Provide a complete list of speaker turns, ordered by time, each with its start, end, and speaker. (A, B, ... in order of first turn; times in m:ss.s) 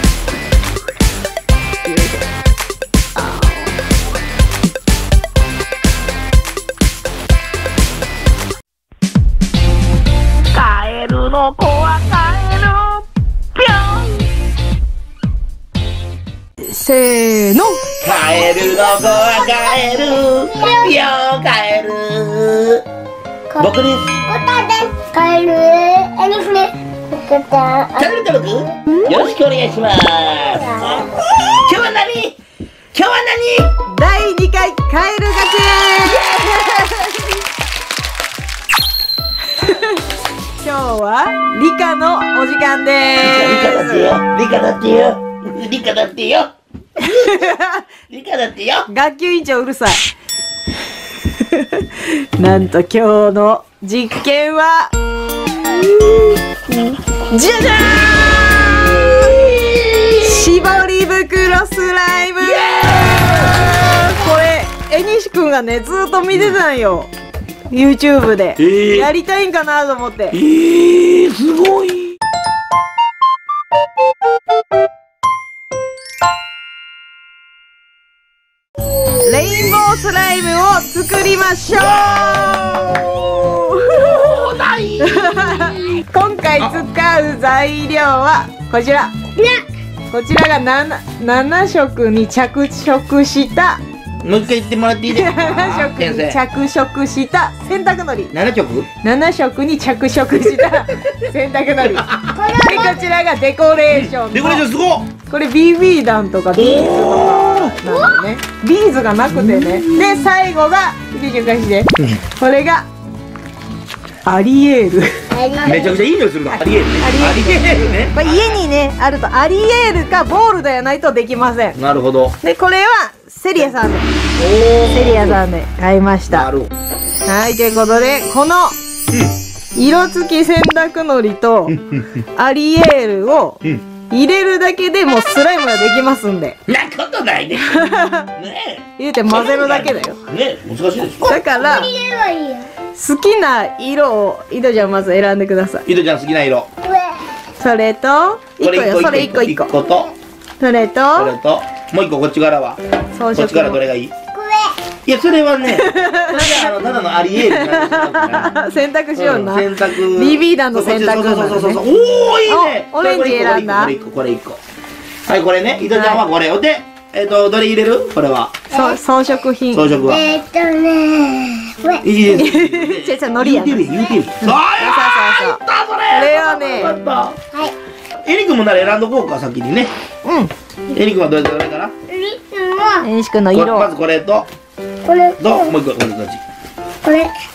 0:01.8-0:02.2 A
0:03.2-0:03.8 A
0:10.5-0:14.2 B
0:16.6-0:17.8 A
0:18.0-0:22.8 B
0:18.5-0:21.0 C
0:23.5-0:28.2 C
0:23.6-0:24.2 B
0:28.0-0:32.4 B
0:30.6-0:31.0 C
0:32.9-0:33.7 B
0:33.9-0:37.3 A
0:36.0-0:36.9 B
0:39.5-0:40.0 A
0:40.6-0:44.2 A
0:43.2-0:47.6 B
0:47.0-0:47.9 A
0:48.1-0:48.9 B
0:48.9-0:50.0 A
0:51.2-0:54.9 A
0:57.2-0:59.5 A
0:58.2-1:00.5 B
1:00.2-1:07.1 A
1:02.4-1:04.0 B
1:06.3-1:06.6 B
1:07.7-1:10.4 A
1:08.6-1:09.1 B
1:10.3-1:12.2 B
1:19.2-1:24.5 A
1:21.7-1:25.7 B
1:25.0-1:29.2 A
1:26.6-1:26.8 B
1:29.4-1:29.6 C
1:30.1-1:33.8 A
1:34.2-1:36.4 B
1:35.1-1:38.4 A
1:38.3-1:38.9 B
1:39.0-1:44.6 A
1:40.4-1:41.2 B
1:41.9-1:42.4 B
1:42.3-1:43.0 C
1:43.9-1:45.1 B
1:45.2-1:52.9 A
1:46.5-1:47.8 B
1:47.8-1:48.1 C
1:49.3-1:50.3 B
1:54.2-1:55.3 A
1:55.3-1:56.0 C
1:55.6-1:58.6 B
1:56.5-2:01.8 A
2:01.8-2:02.4 B
2:02.4-2:04.2 A
2:04.4-2:05.4 B
2:04.9-2:06.5 A
2:06.3-2:06.7 B
2:07.2-2:08.8 A
2:09.7-2:11.8 A
2:11.7-2:12.2 B
2:12.4-2:16.6 A
2:16.7-2:21.4 B
2:17.6-2:18.3 A
2:19.0-2:20.2 A
2:21.3-2:21.9 A
2:21.3-2:22.7 C
2:22.9-2:25.9 A
2:25.9-2:26.7 B
2:26.8-2:27.3 C
2:27.6-2:29.7 A
2:28.6-2:30.2 B
2:30.6-2:31.3 A
2:31.2-2:32.8 B
2:33.1-2:33.8 A
2:33.3-2:34.1 B
2:34.3-2:34.8 C
2:35.0-2:38.6 B
2:35.7-2:41.8 A
2:39.2-2:44.6 B
2:42.5-2:43.9 A
2:45.3-2:48.6 B
2:45.9-2:46.2 A
2:48.7-2:50.0 A
2:48.7-2:49.0 C
2:49.7-2:50.2 B
2:50.1-2:52.1 C
2:52.0-2:57.4 B
2:52.3-2:57.0 A
2:58.2-2:59.9 B
3:00.2-3:00.5 A
3:00.9-3:01.9 B
3:02.1-3:03.0 C
3:03.0-3:04.0 A
3:03.5-3:04.5 B
3:05.0-3:05.8 C
3:05.4-3:06.4 B
3:07.0-3:07.3 C